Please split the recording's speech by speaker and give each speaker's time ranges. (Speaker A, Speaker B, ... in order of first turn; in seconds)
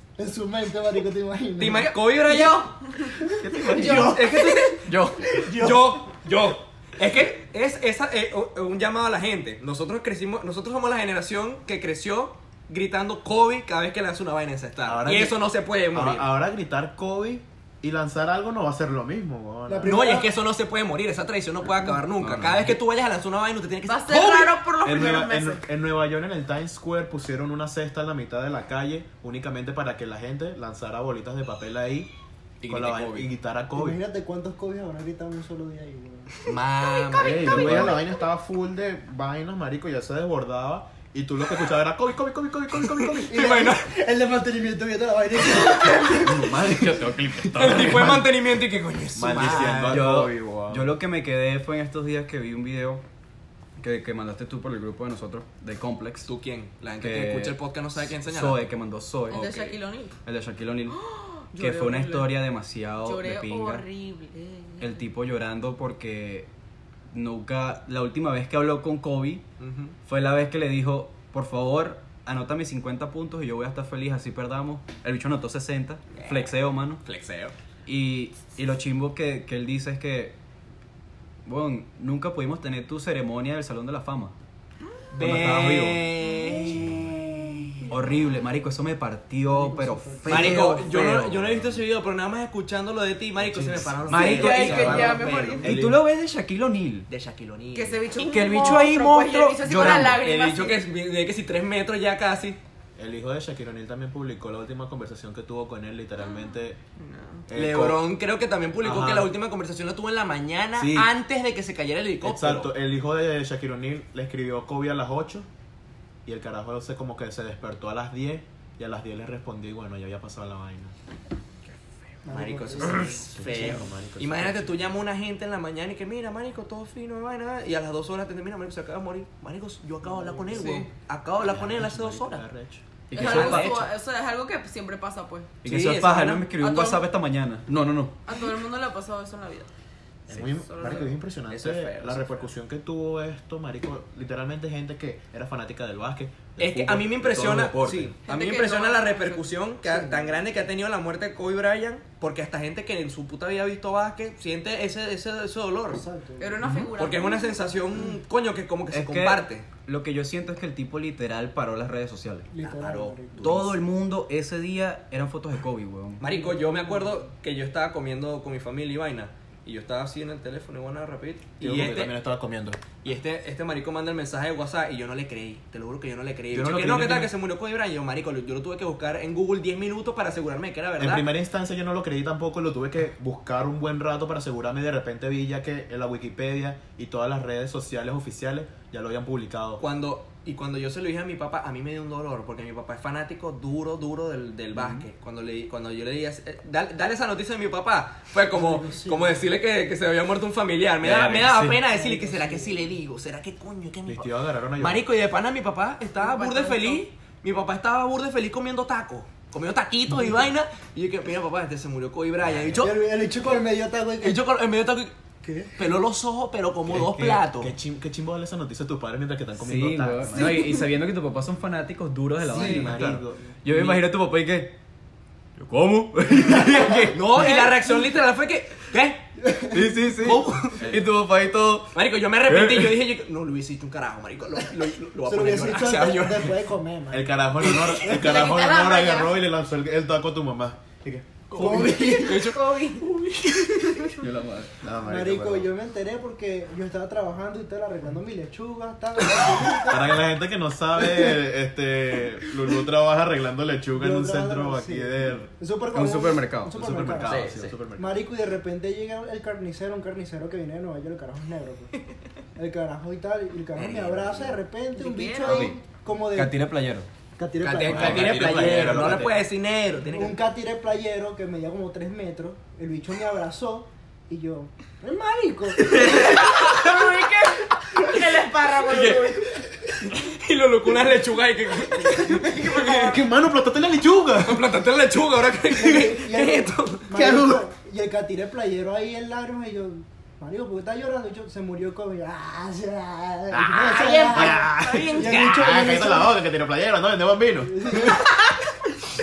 Speaker A: 0.2-2.5, 3.2-4.7, 5.2-6.0, 19.7-20.3, 33.7-36.4, 37.6-38.0, 43.3-46.5, 86.7-87.9, 89.5-90.9, 122.2-123.8, 130.0-130.8, 149.8-150.4, 155.9-156.7, 162.5-163.7, 166.2-167.3, 198.5-199.4, 201.7-202.9, 212.8-214.6, 215.4-215.8, 222.5-223.0, 226.8-227.6, 229.4-229.9, 235.2-237.8, 241.5-242.4, 245.0-250.2, 253.9-262.0, 262.6-266.6, 267.4-269.1, 270.1-276.3, 285.7-296.4, 297.6-298.4
Speaker B: 1.6-2.7, 3.7-16.3, 19.8-24.6, 36.5-37.9, 43.2-43.9, 47.5-50.0, 56.2-58.7, 59.3-59.8, 69.6-70.0, 76.2-76.5, 77.0-77.5, 85.1-87.6, 90.3-95.7, 97.1-98.2, 99.7-102.6, 107.5-112.7, 122.3-132.5, 133.1-133.9, 135.6-136.5, 140.8-142.5, 146.6-156.1, 157.0-159.7, 162.6-163.6, 166.2-172.2, 173.0-181.3, 189.8-212.9, 214.2-215.1, 215.7-217.7, 222.8-223.1, 223.7-223.9, 226.9-229.2, 230.2-231.0, 231.9-236.6, 241.5-244.2, 249.2-249.8, 257.2-257.8, 263.7-264.6, 267.6-270.5, 275.9-277.0, 278.8-279.4, 280.0-283.2, 284.4-287.1, 294.0-294.4, 295.0-295.9
Speaker C: 2.2-3.1, 4.4-4.7, 23.9-25.6, 37.0-37.5, 59.3-60.1, 60.9-62.4, 63.0-65.0, 86.2-87.6, 94.2-95.7, 97.7-100.8, 107.0-107.4, 130.6-130.9, 133.1-135.5, 136.5-137.0, 138.2-139.7, 140.3-141.1, 148.2-149.4, 156.4-158.0, 206.2-207.0, 227.4-227.8, 238.0-239.4, 241.7-243.1, 243.8-244.2, 264.9-265.7, 275.9-279.6, 282.2-283.2, 294.2-295.4, 298.1-298.7
Speaker D: 3.4-4.2, 4.8-5.3, 22.2-22.8, 32.6-33.3, 37.1-38.0, 46.2-48.2, 49.8-53.0, 53.8-56.3, 57.0-59.5, 60.2-61.0, 61.5-63.9, 64.8-66.5, 67.1-69.4, 70.0-77.0, 77.8-80.3, 81.4-84.3, 85.2-86.0, 87.9-91.8, 94.0-97.1, 98.2-100.2, 133.1-133.9, 135.6-138.1, 156.6-156.9, 158.9-162.5, 163.4-166.3, 201.0-201.3, 216.9-217.4, 219.5-224.7, 225.6-227.5, 229.7-233.0, 244.2-244.7, 255.9-257.3, 265.4-265.8, 266.3-267.1
Speaker E: 14.8-15.4, 15.9-19.9, 24.8-32.1, 32.7-34.0, 37.3-43.6, 47.4-48.2, 49.1-50.9, 93.4-94.2, 95.6-96.0, 103.0-106.8, 107.5-108.1, 108.8-109.3, 110.8-111.1, 112.2-115.5, 116.2-120.9, 123.3-124.9, 131.4-132.8, 140.3-148.2, 171.6-172.8, 176.5-177.3, 181.0-189.8, 201.2-201.8, 204.1-205.1, 212.5-212.8, 217.2-220.6, 222.5-223.4, 237.1-241.4, 244.8-245.7, 249.9-255.5, 256.7-258.2, 267.9-269.4, 282.8-284.7, 287.1-287.7, 293.5-298.0